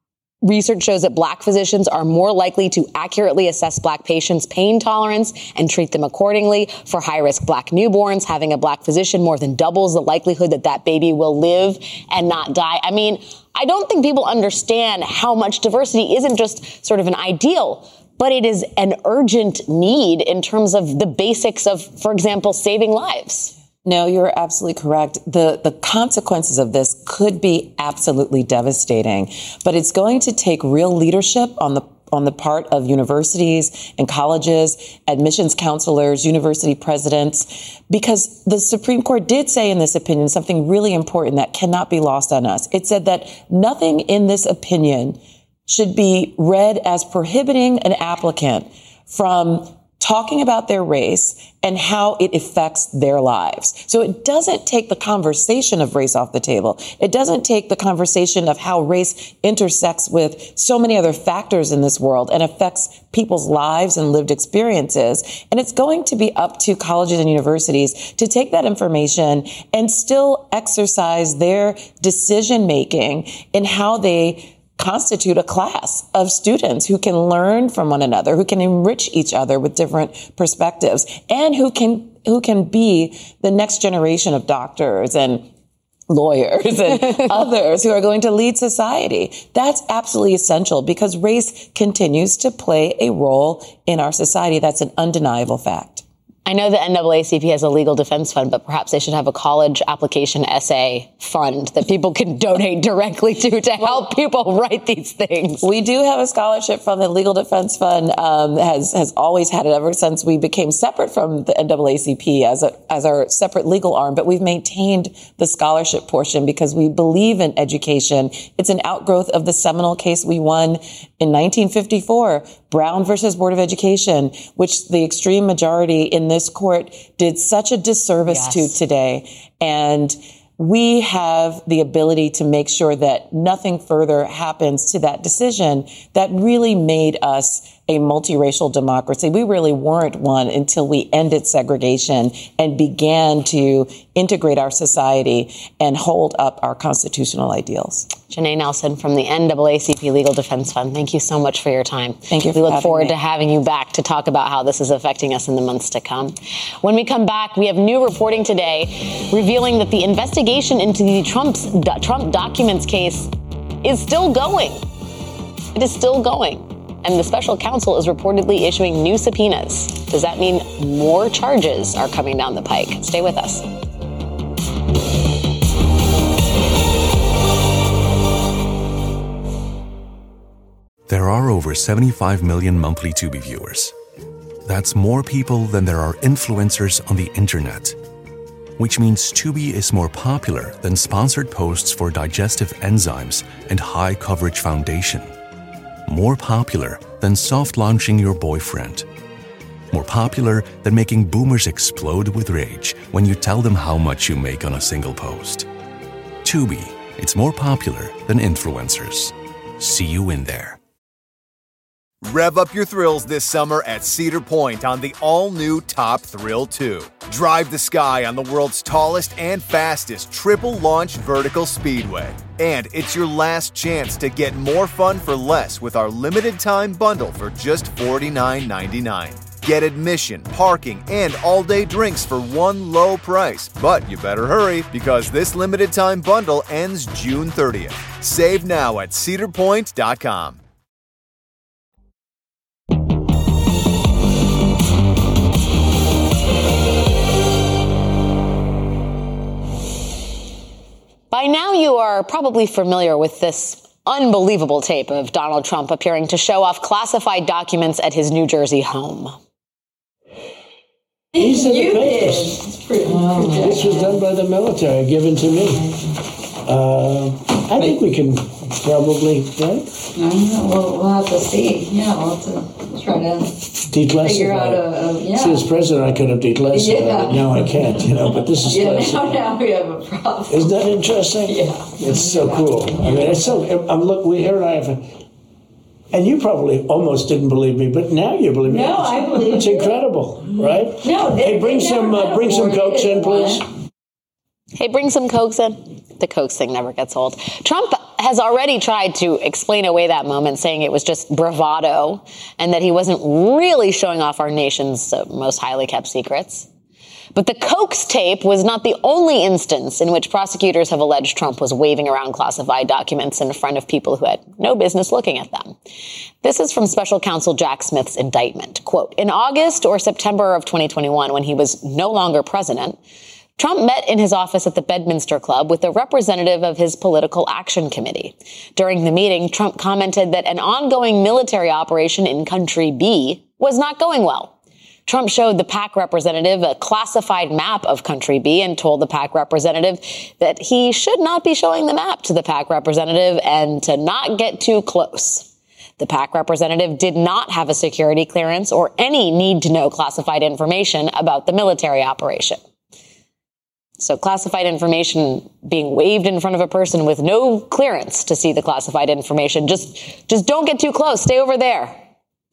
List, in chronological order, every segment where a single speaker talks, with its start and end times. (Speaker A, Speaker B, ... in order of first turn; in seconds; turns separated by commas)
Speaker A: 0.4-23.5, Speaker B: 23.9-85.5, Speaker B: 86.1-96.0, Speaker A: 96.5-105.7, Speaker B: 105.6-148.1, Speaker A: 128.3-128.8, Speaker A: 148.3-163.3, Speaker B: 152.3-153.2, Speaker A: 163.8-164.8, Speaker A: 165.8-173.7, Speaker C: 181.1-183.9, Speaker C: 184.7-188.0, Speaker C: 188.8-195.3, Speaker C: 196.1-199.1, Speaker C: 199.9-205.7, Speaker C: 206.4-210.8, Speaker D: 212.2-240.6, Speaker A: 251.3-259.4, Speaker E: 261.4-264.2, Speaker F: 261.4-266.0, Speaker E: 265.7-265.9, Speaker F: 266.6-269.9, Speaker E: 270.2-273.5, Speaker F: 273.8-279.5, Speaker E: 274.1-275.7, Speaker E: 276.7-280.9, Speaker F: 280.5-285.2, Speaker E: 281.5-283.6, Speaker F: 286.1-293.7, Speaker E: 288.7-290.0, Speaker E: 291.0-293.6, Speaker A: 294.8-306.7, Speaker A: 307.3-315.8, Speaker A: 316.4-323.0, Speaker A: 323.6-334.5, Speaker A: 335.1-345.5, Speaker A: 346.0-352.6, Speaker A: 354.0-362.0